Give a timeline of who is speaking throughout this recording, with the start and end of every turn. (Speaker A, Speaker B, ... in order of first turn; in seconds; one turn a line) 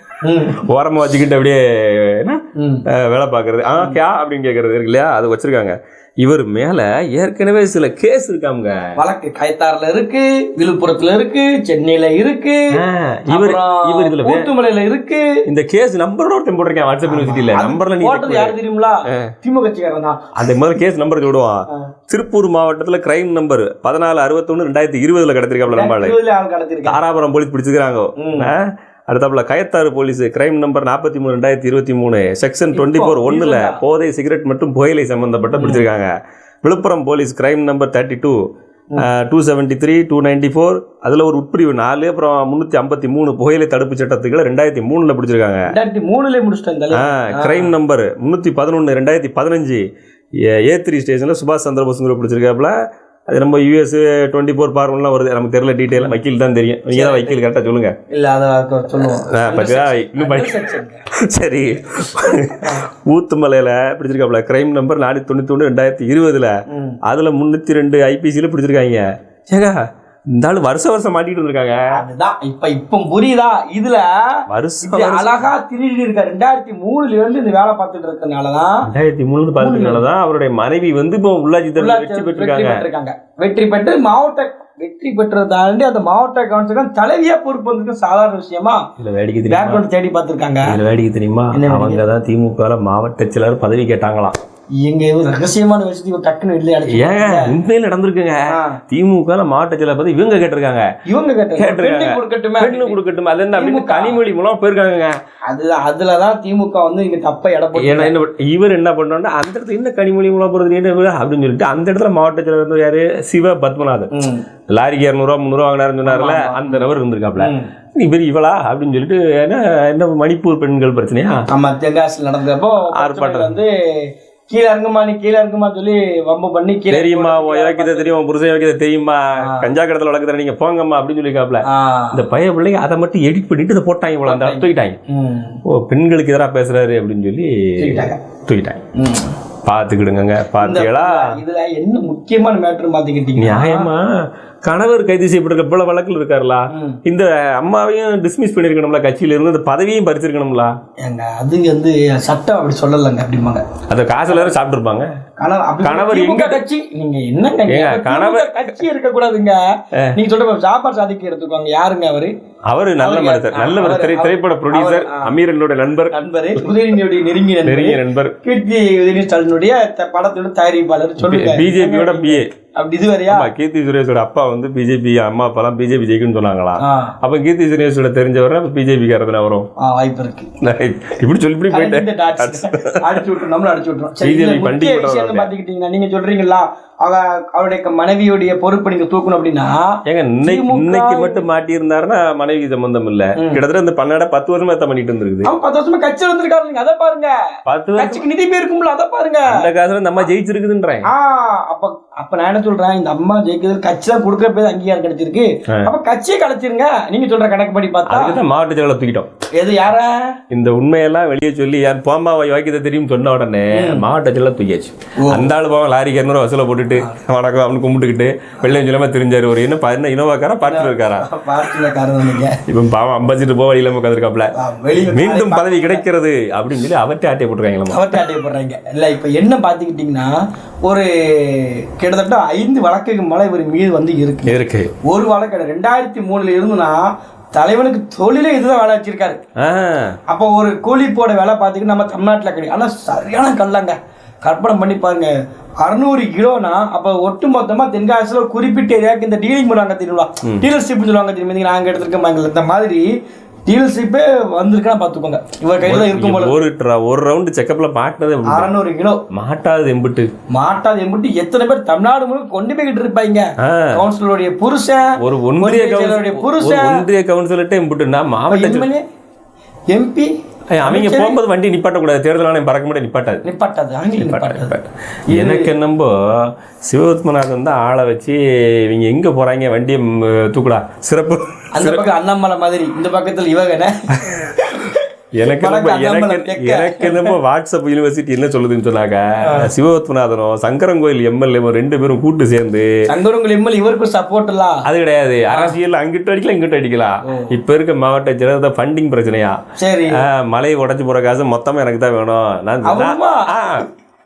Speaker A: 0.2-0.6
Speaker B: 0.6-8.8
Speaker A: 2.6-2.9
Speaker A: 9.0-12.7
Speaker B: 12.7-14.5
Speaker A: 13.3-15.2
Speaker B: 15.5-18.6
Speaker A: 17.1-20.2
Speaker B: 19.1-19.3
Speaker B: 20.4-26.2
Speaker A: 25.7-27.0
Speaker B: 26.9-36.1
Speaker A: 28.2-28.5
Speaker A: 32.7-33.8
Speaker A: 35.6-35.8
Speaker B: 36.6-38.4
Speaker B: 39.0-45.7
Speaker A: 45.7-47.7
Speaker B: 46.9-49.8
Speaker B: 50.4-52.8
Speaker B: 53.3-58.0
Speaker A: 56.9-57.3
Speaker A: 58.1-61.0
Speaker B: 59.3-60.6
Speaker B: 61.2-66.5
Speaker A: 66.7-67.0
Speaker B: 67.0-69.8
Speaker B: 70.4-71.8
Speaker A: 71.9-74.1
Speaker B: 74.5-75.5
Speaker A: 74.8-78.8
Speaker B: 78.8-82.8
Speaker A: 79.6-80.0
Speaker A: 81.8-88.8
Speaker B: 89.0-89.8
Speaker A: 89.5-90.8
Speaker B: 90.7-94.3
Speaker A: 91.5-92.1
Speaker A: 94.8-97.6
Speaker B: 96.9-100.9
Speaker A: 98.5-98.8
Speaker A: 101.1-103.0
Speaker B: 101.6-105.1
Speaker A: 103.5-104.2
Speaker A: 105.5-108.2
Speaker B: 107.8-114.1
Speaker A: 114.1-114.4
Speaker B: 114.7-121.5
Speaker A: 116.0-117.7
Speaker A: 121.5-128.1
Speaker B: 122.9-123.6
Speaker B: 126.9-135.0
Speaker A: 129.4-129.7
Speaker A: 131.7-132.3
Speaker A: 134.2-135.6
Speaker B: 135.7-138.8
Speaker A: 137.8-138.2
Speaker A: 139.0-139.4
Speaker B: 139.7-141.3
Speaker A: 140.6-143.9
Speaker B: 143.4-144.1
Speaker B: 144.6-150.7
Speaker A: 146.7-147.0
Speaker A: 151.0-153.6
Speaker B: 153.9-155.1
Speaker A: 155.4-159.6
Speaker B: 155.8-156.6
Speaker B: 157.7-158.7
Speaker A: 160.2-162.3
Speaker B: 162.7-166.1
Speaker A: 163.0-165.3
Speaker A: 166.1-173.5
Speaker B: 167.7-168.4
Speaker B: 171.2-172.5
Speaker B: 173.3-179.7
Speaker A: 176.8-177.1
Speaker A: 179.8-180.5
Speaker B: 180.6-183.2
Speaker A: 181.7-191.4
Speaker B: 184.2-185.5
Speaker B: 190.1-195.5
Speaker A: 193.4-193.6
Speaker A: 195.4-197.3
Speaker B: 197.7-198.2
Speaker A: 198.0-199.7
Speaker B: 199.5-201.1
Speaker A: 201.1-208.4
Speaker B: 208.1-209.3
Speaker A: 209.6-210.3
Speaker B: 210.5-221.3
Speaker A: 213.7-214.1
Speaker A: 215.2-215.5
Speaker A: 220.6-222.5
Speaker B: 222.7-228.2
Speaker A: 224.6-226.0
Speaker A: 227.9-230.3
Speaker A: 230.8-239.4
Speaker B: 234.5-234.9
Speaker B: 239.6-240.2
Speaker A: 240.3-245.3
Speaker A: 245.8-253.1
Speaker A: 253.7-256.6
Speaker B: 255.8-258.7
Speaker A: 258.5-259.2
Speaker B: 259.3-260.3
Speaker A: 260.5-267.0
Speaker B: 263.6-264.0
Speaker B: 265.2-268.9
Speaker A: 268.5-269.0
Speaker A: 269.9-271.4
Speaker B: 270.7-273.4
Speaker A: 273.4-274.7
Speaker B: 274.2-282.1
Speaker A: 275.3-275.7
Speaker A: 281.8-287.4
Speaker B: 284.2-284.6
Speaker B: 285.3-292.9
Speaker A: 289.4-289.7
Speaker A: 293.1-294.9
Speaker B: 294.9-299.6
Speaker A: 297.3-297.5
Speaker A: 299.8-300.2
Speaker B: 300.2-303.9
Speaker A: 302.8-303.5